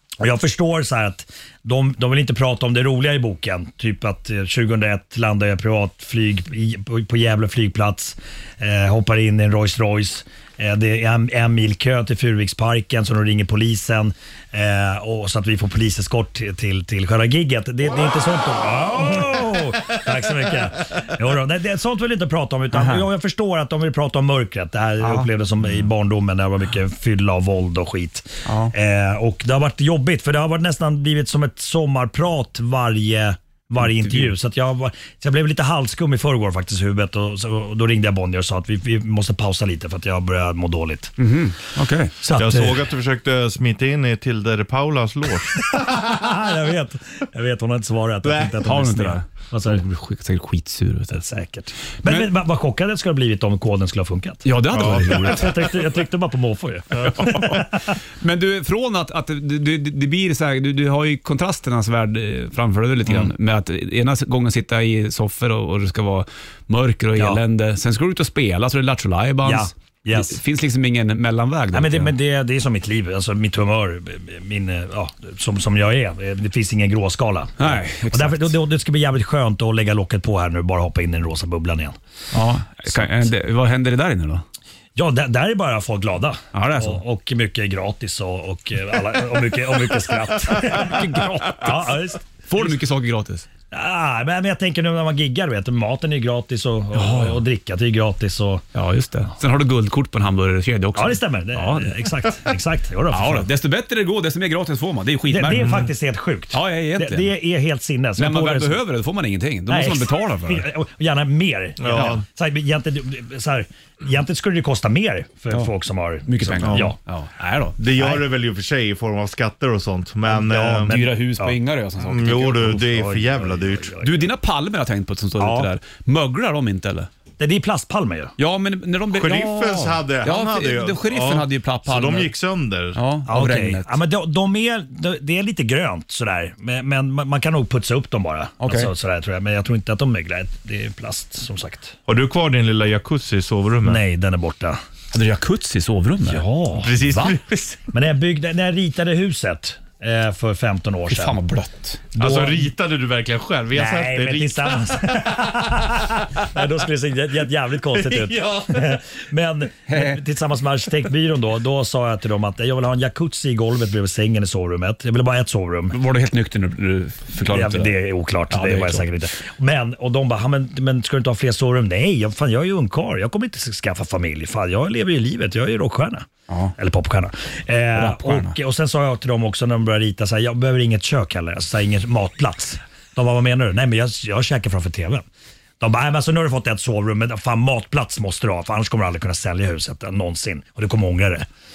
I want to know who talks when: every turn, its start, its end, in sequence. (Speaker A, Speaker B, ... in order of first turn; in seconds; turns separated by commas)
Speaker A: 0.2-41.1, Speaker B: 22.7-23.1, Speaker B: 25.0-25.9, Speaker B: 28.4-28.7, Speaker B: 33.8-34.3, Speaker B: 41.2-42.2, Speaker A: 42.2-42.8, Speaker C: 42.4-45.9, Speaker A: 45.5-49.8, Speaker C: 48.2-48.5, Speaker B: 48.6-51.2, Speaker A: 51.1-58.0, Speaker B: 52.0-52.3, Speaker B: 54.4-55.7, Speaker C: 54.7-55.3, Speaker B: 57.0-72.1, Speaker A: 67.2-67.4, Speaker A: 69.4-70.4, Speaker A: 71.7-82.0, Speaker B: 77.6-78.5, Speaker B: 82.3-84.4, Speaker A: 82.9-83.2, Speaker A: 85.0-92.7, Speaker B: 86.5-87.0, Speaker B: 90.6-93.5, Speaker A: 93.7-98.6, Speaker B: 96.9-97.4, Speaker B: 98.7-102.0, Speaker A: 100.9-103.5, Speaker B: 103.1-105.9, Speaker A: 105.3-108.8, Speaker B: 106.5-107.3, Speaker B: 108.2-110.7, Speaker A: 109.7-117.0, Speaker C: 111.8-112.2, Speaker B: 116.2-117.8, Speaker C: 116.6-116.9, Speaker C: 117.8-120.9, Speaker A: 117.9-118.2, Speaker A: 120.2-121.6, Speaker B: 120.9-122.7, Speaker C: 122.1-123.9, Speaker A: 122.3-124.3, Speaker B: 124.0-127.1, Speaker A: 125.4-125.7, Speaker A: 127.4-128.3, Speaker B: 128.4-132.3, Speaker C: 129.1-133.0, Speaker B: 132.9-134.0, Speaker A: 133.2-142.0, Speaker B: 138.6-138.9, Speaker C: 142.1-144.0, Speaker A: 143.8-144.8, Speaker B: 145.1-146.4, Speaker A: 146.2-147.3, Speaker C: 146.7-147.8, Speaker A: 147.9-151.4, Speaker B: 151.1-152.1, Speaker A: 152.1-152.7, Speaker C: 152.2-155.5, Speaker A: 153.7-166.0, Speaker C: 157.9-159.0, Speaker B: 159.9-160.2, Speaker B: 165.9-169.1, Speaker A: 167.4-185.2, Speaker B: 177.9-178.6, Speaker A: 185.8-191.5